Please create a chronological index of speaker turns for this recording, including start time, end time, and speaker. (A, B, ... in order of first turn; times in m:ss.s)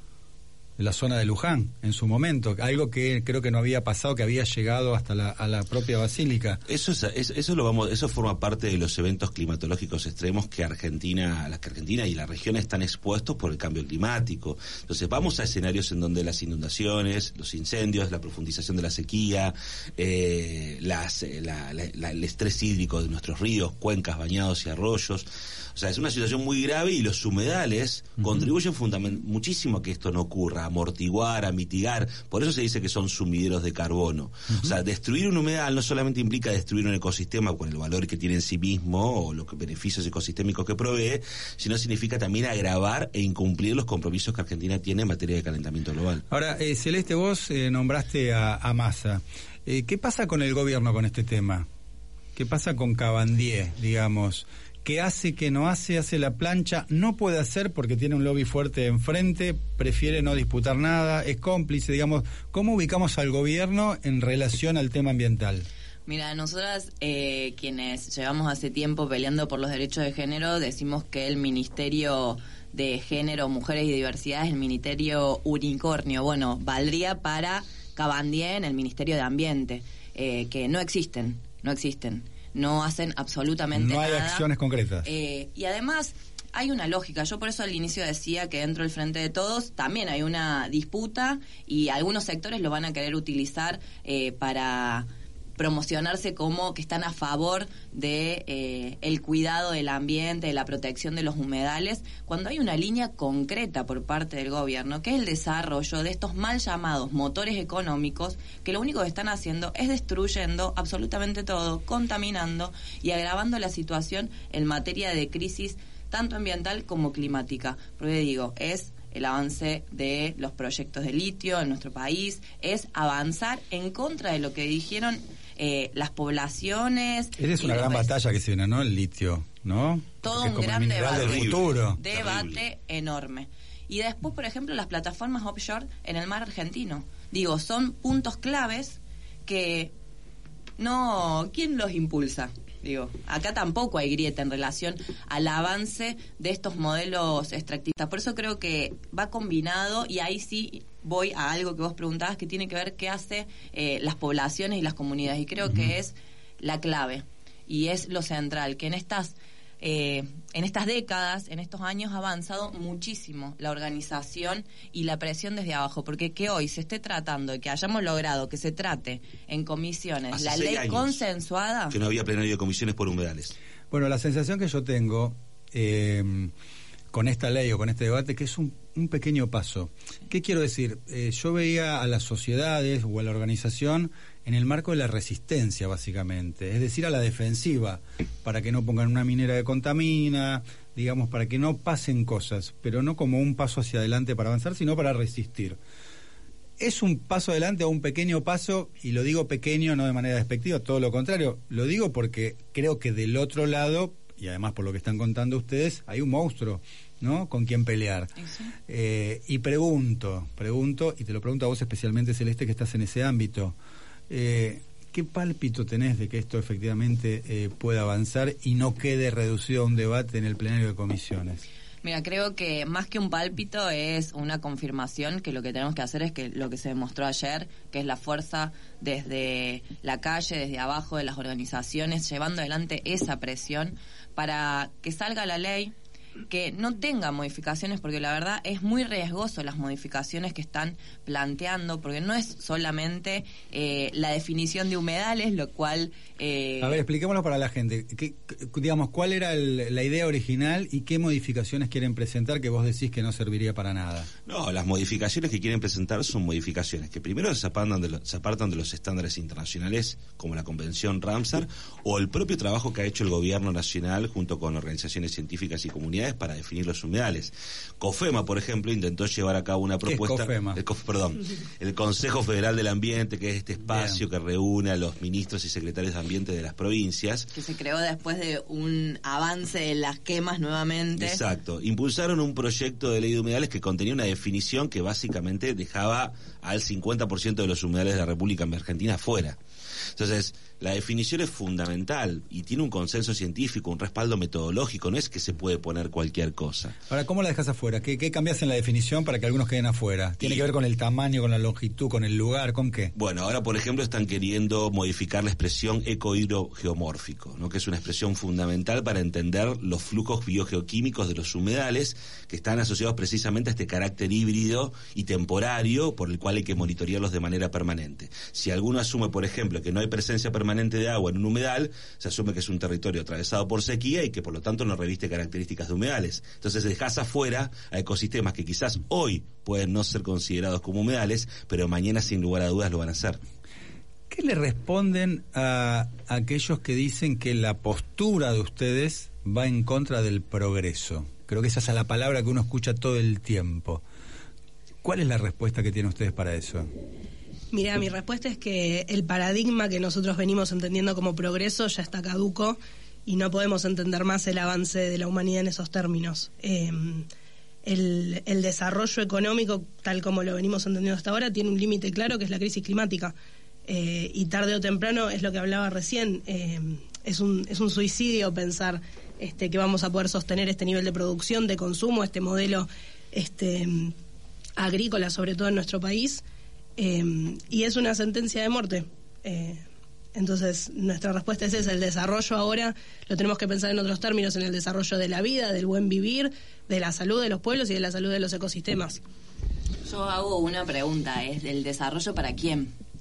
0:00.8-0:06.6 A
0:06.7-0:46.2 B
0:28.2-0:28.5 A
0:46.3-0:51.7 A
0:52.4-1:05.7 A
1:06.1-1:24.5 C
1:23.7-1:25.1 A
1:25.0-2:08.1 C
2:07.4-2:12.0 A
2:10.2-2:19.9 C
2:11.0-2:12.6 B
2:20.8-2:52.0 C
2:50.3-2:51.2 B
2:51.9-2:53.5 B
2:53.9-2:56.5 A
2:57.1-3:15.8 A
3:16.8-3:28.3 A
3:28.9-3:33.8 A
3:34.3-3:41.6 A
3:42.0-3:55.9 C
3:56.5-4:07.0 C
4:06.8-4:14.3 A
4:14.4-4:37.5 B
4:30.0-4:30.8 A
4:33.9-4:34.2 A
4:37.5-4:41.4 C
4:41.2-4:49.6 B
4:50.2-4:57.0 B
4:57.1-5:03.1 A
5:03.1-5:33.4 B
5:34.3-5:44.0 A
5:45.0-5:46.9 A
5:47.7-5:57.3 D
5:57.8-6:03.4 D
6:03.9-6:14.1 D
6:14.8-6:16.4 D
6:17.0-6:19.8 D
6:20.4-6:29.2 D
6:30.0-6:32.9 C